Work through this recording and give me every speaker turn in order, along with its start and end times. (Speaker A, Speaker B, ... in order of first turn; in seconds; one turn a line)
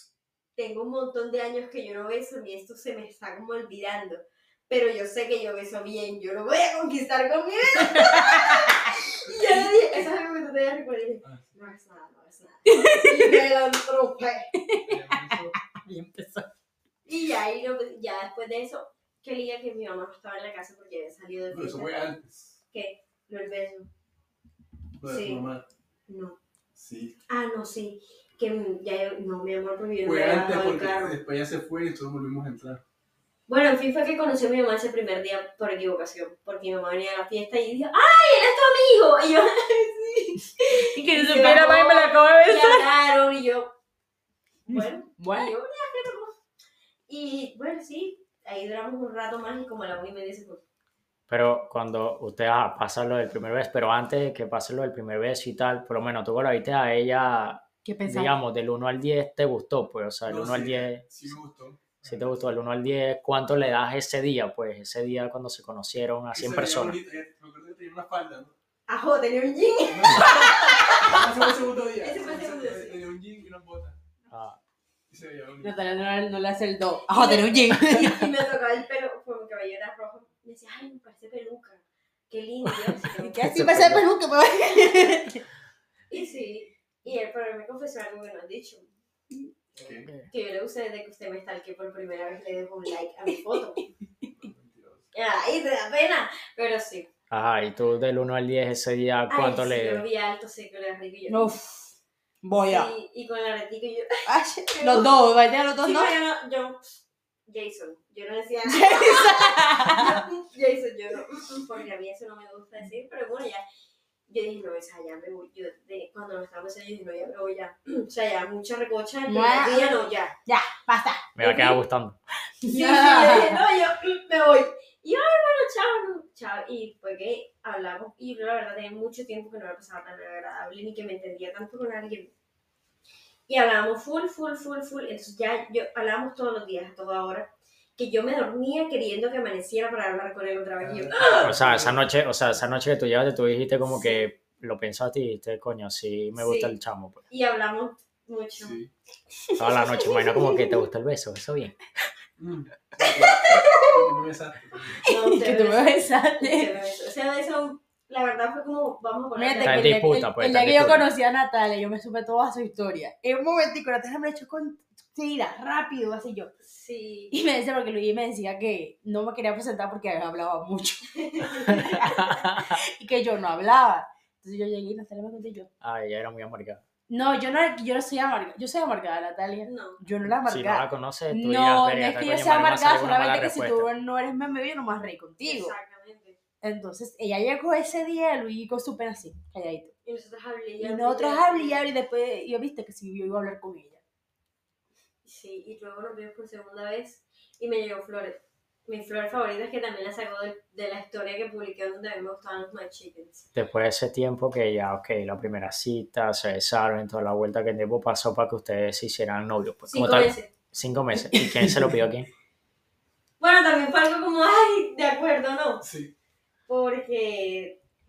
Speaker A: 0.6-14.5
Speaker B: 7.8-8.8
Speaker B: 12.7-13.4
Speaker B: 14.6-16.4
Speaker C: 14.8-15.6
Speaker A: 17.0-22.1
Speaker C: 21.5-22.6
Speaker A: 22.7-23.9
Speaker C: 25.0-25.6
Speaker A: 25.1-25.4
Speaker A: 26.1-26.4
Speaker C: 26.7-27.2
Speaker A: 27.3-31.2
Speaker C: 30.0-32.8
Speaker A: 33.5-43.7
Speaker B: 40.6-42.9
Speaker A: 44.6-46.3
Speaker B: 44.7-45.5
Speaker A: 47.1-50.6
Speaker D: 51.3-61.3
Speaker B: 57.8-58.3
Speaker C: 60.2-62.5
Speaker D: 62.0-67.0
Speaker C: 66.3-68.5
Speaker A: 68.9-71.4
Speaker C: 69.9-74.0
Speaker A: 72.0-73.0
Speaker D: 74.3-74.6
Speaker C: 75.1-76.0
Speaker B: 75.6-78.3
Speaker A: 77.1-83.6
Speaker B: 83.2-85.4
Speaker D: 83.5-84.0
Speaker A: 86.1-88.9
Speaker C: 89.8-90.1
Speaker D: 89.8-90.3
Speaker A: 90.3-93.8
Speaker C: 94.2-95.1
Speaker A: 95.1-97.1
Speaker D: 97.3-100.0
Speaker A: 99.3-101.5
Speaker B: 101.3-102.9
Speaker A: 102.6-104.2
Speaker B: 104.2-106.2
Speaker A: 104.7-105.2
Speaker A: 105.8-106.8
Speaker A: 107.5-113.6
Speaker B: 108.7-110.2
Speaker A: 114.3-120.3
Speaker B: 119.3-119.9
Speaker B: 120.5-121.3
Speaker D: 121.3-122.2
Speaker A: 121.4-121.7
Speaker B: 122.6-123.6
Speaker A: 122.7-132.3
Speaker A: 133.5-141.6
Speaker C: 140.8-142.0
Speaker D: 141.4-147.2
Speaker A: 143.8-144.3
Speaker A: 146.3-146.8
Speaker A: 147.3-148.8
Speaker C: 148.6-148.9
Speaker B: 149.4-150.8
Speaker D: 149.6-151.8
Speaker C: 152.4-155.0
Speaker A: 153.0-153.3
Speaker B: 153.2-154.1
Speaker B: 155.0-156.7
Speaker A: 155.0-159.9
Speaker B: 159.3-166.5
Speaker D: 159.6-161.1
Speaker A: 166.6-167.3
Speaker B: 167.3-175.7
Speaker A: 171.1-171.8
Speaker D: 171.7-172.8
Speaker D: 175.8-176.8
Speaker B: 177.1-185.7
Speaker A: 179.6-180.0
Speaker D: 180.4-183.9
Speaker A: 185.4-186.4
Speaker B: 186.6-189.9
Speaker A: 190.0-191.9
Speaker B: 190.8-194.0
Speaker A: 195.2-203.5
Speaker D: 203.5-212.3
Speaker A: 209.9-210.5
Speaker B: 211.3-211.9
Speaker A: 213.4-215.8
Speaker C: 215.8-216.1
Speaker A: 216.7-217.8